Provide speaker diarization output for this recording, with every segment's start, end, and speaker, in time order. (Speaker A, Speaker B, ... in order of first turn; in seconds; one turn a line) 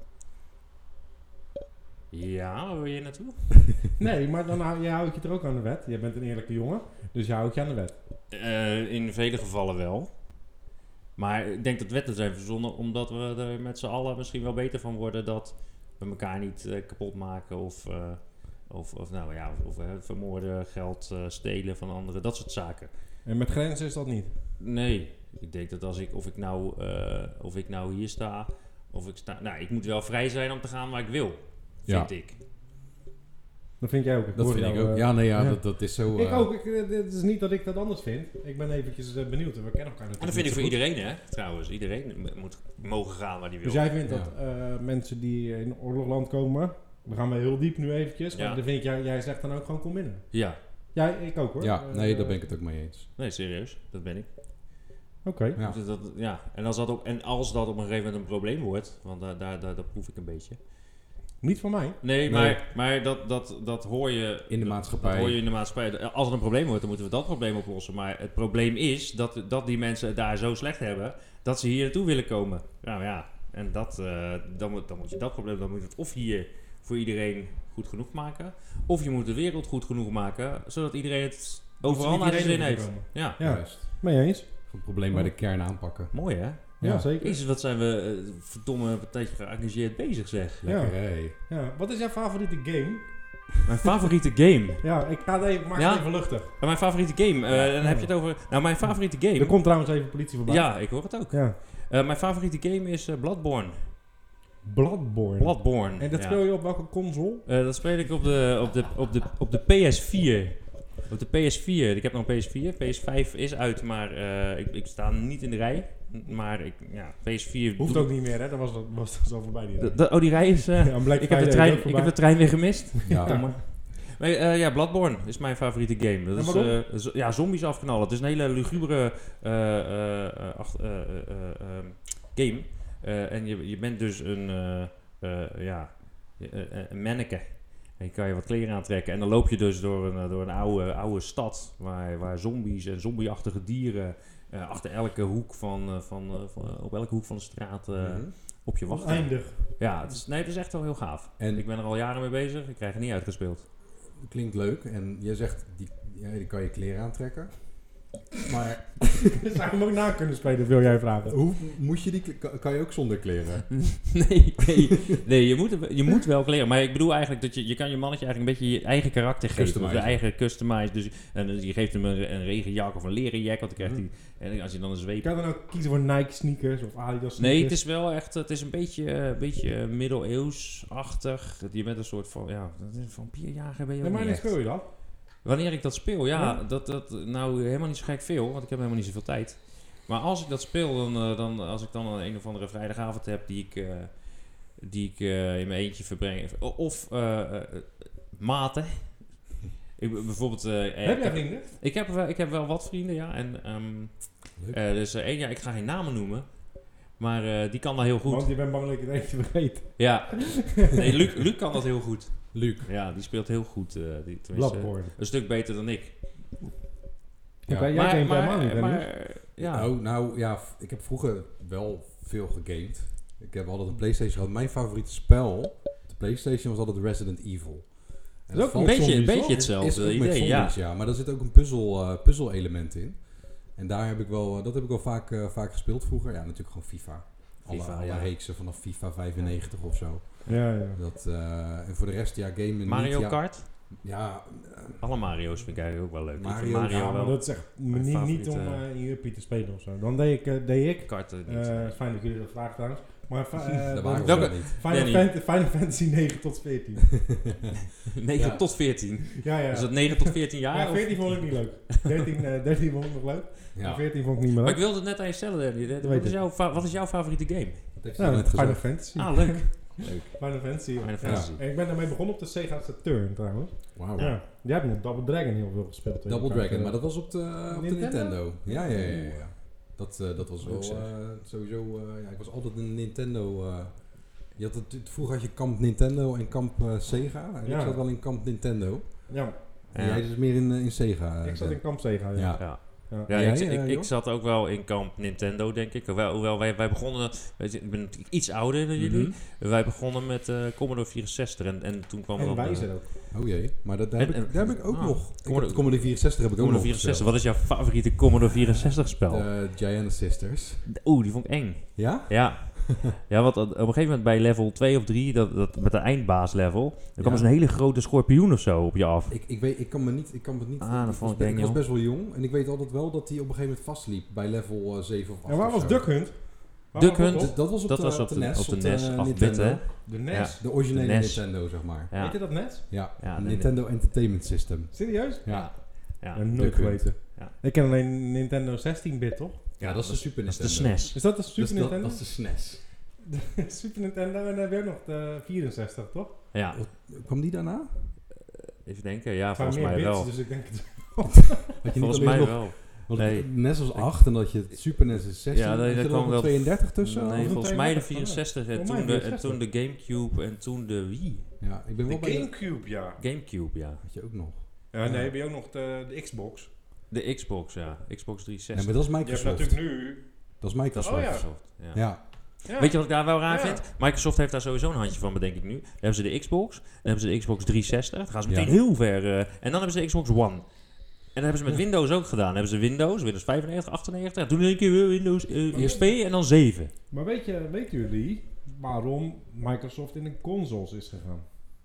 Speaker A: 2.1-3.4
Speaker B: 4.0-8.0
Speaker A: 8.3-10.1
Speaker A: 11.2-22.9
Speaker B: 23.2-24.3
Speaker A: 24.6-32.4
Speaker C: 31.9-32.1
Speaker B: 33.8-40.8
Speaker C: 34.4-36.5
Speaker A: 40.2-43.9
Speaker B: 43.6-50.3
Speaker C: 44.1-44.3
Speaker A: 48.3-48.6
Speaker A: 50.3-50.6
Speaker B: 50.9-52.4
Speaker C: 51.6-53.1
Speaker A: 53.2-54.3
Speaker B: 55.2-55.6
Speaker A: 55.6-60.6
Speaker B: 61.4-62.0
Speaker A: 62.0-83.4
Speaker C: 62.3-62.6
Speaker C: 64.5-65.4
Speaker B: 81.8-85.3
Speaker C: 83.4-84.1
Speaker C: 84.7-87.1
Speaker A: 86.1-90.7
Speaker B: 86.8-87.4
Speaker C: 90.6-91.3
Speaker B: 90.7-93.1
Speaker A: 93.7-94.8
Speaker B: 94.8-96.7
Speaker A: 95.8-99.6
Speaker B: 97.5-101.6
Speaker A: 100.5-103.9
Speaker B: 104.6-107.5
Speaker A: 105.4-106.4
Speaker A: 107.5-118.1
Speaker B: 117.8-123.6
Speaker A: 119.8-153.7
Speaker C: 123.1-123.5
Speaker B: 126.3-126.8
Speaker C: 148.0-148.3
Speaker B: 148.9-149.9
Speaker C: 151.4-151.7
Speaker C: 154.1-159.4
Speaker B: 159.3-161.4
Speaker C: 161.3-164.4
Speaker A: 163.8-175.4
Speaker C: 169.5-170.2
Speaker C: 173.8-174.0
Speaker B: 175.2-177.8
Speaker A: 177.4-184.7
Speaker B: 184.0-184.8
Speaker A: 185.4-208.5
Speaker B: 186.3-186.6
Speaker B: 201.0-201.7
Speaker B: 208.2-211.0
Speaker A: 210.0-216.3
Speaker C: 212.5-212.9
Speaker B: 214.5-215.1
Speaker B: 217.7-219.1
Speaker C: 217.7-217.9
Speaker A: 217.9-219.9
Speaker C: 219.4-245.1
Speaker B: 228.5-229.6
Speaker A: 228.8-230.8
Speaker A: 237.6-238.3
Speaker B: 240.5-241.0
Speaker A: 242.8-243.7
Speaker A: 245.0-248.8
Speaker C: 246.3-247.0
Speaker B: 246.9-257.3
Speaker A: 251.1-251.9
Speaker C: 253.6-254.8
Speaker A: 254.2-255.3
Speaker A: 258.1-261.7
Speaker C: 258.4-258.6
Speaker B: 259.4-264.8
Speaker C: 263.7-264.1
Speaker A: 264.6-268.3
Speaker B: 266.0-266.4
Speaker C: 268.0-269.0
Speaker B: 268.2-279.5
Speaker A: 269.1-271.6
Speaker C: 271.2-271.5
Speaker C: 273.9-274.4
Speaker C: 276.3-294.1
Speaker A: 280.6-281.1
Speaker B: 287.6-288.0
Speaker B: 289.3-289.5
Speaker A: 289.9-290.2
Speaker B: 291.4-293.3
Speaker A: 292.6-303.1
Speaker C: 299.0-299.4
Speaker B: 302.4-303.1
Speaker C: 303.3-310.9
Speaker A: 304.1-309.5
Speaker A: 310.9-319.4
Speaker C: 312.0-312.9
Speaker C: 317.2-317.5
Speaker C: 319.3-326.5
Speaker A: 320.8-321.8
Speaker B: 325.5-327.6
Speaker A: 326.9-333.7
Speaker C: 327.3-337.1
Speaker B: 330.1-330.6
Speaker B: 332.1-333.1
Speaker B: 334.9-335.8
Speaker A: 335.5-336.4
Speaker B: 336.3-339.7
Speaker A: 339.8-341.2
Speaker C: 339.8-342.9
Speaker B: 341.1-342.3
Speaker B: 343.3-346.4
Speaker A: 346.5-346.8
Speaker C: 346.7-348.2
Speaker A: 348.8-350.3
Speaker B: 349.5-351.6
Speaker C: 351.8-357.6
Speaker A: 351.9-361.6
Speaker B: 357.2-359.6
Speaker C: 361.6-362.5
Speaker B: 362.1-363.2
Speaker A: 362.7-364.1
Speaker C: 364.0-365.1
Speaker B: 364.9-366.7
Speaker A: 367.1-368.9
Speaker C: 368.7-372.2
Speaker B: 369.2-370.3
Speaker A: 370.9-386.9
Speaker B: 371.0-371.5
Speaker B: 372.6-373.9
Speaker C: 378.5-378.7
Speaker B: 385.7-386.2
Speaker B: 387.1-391.4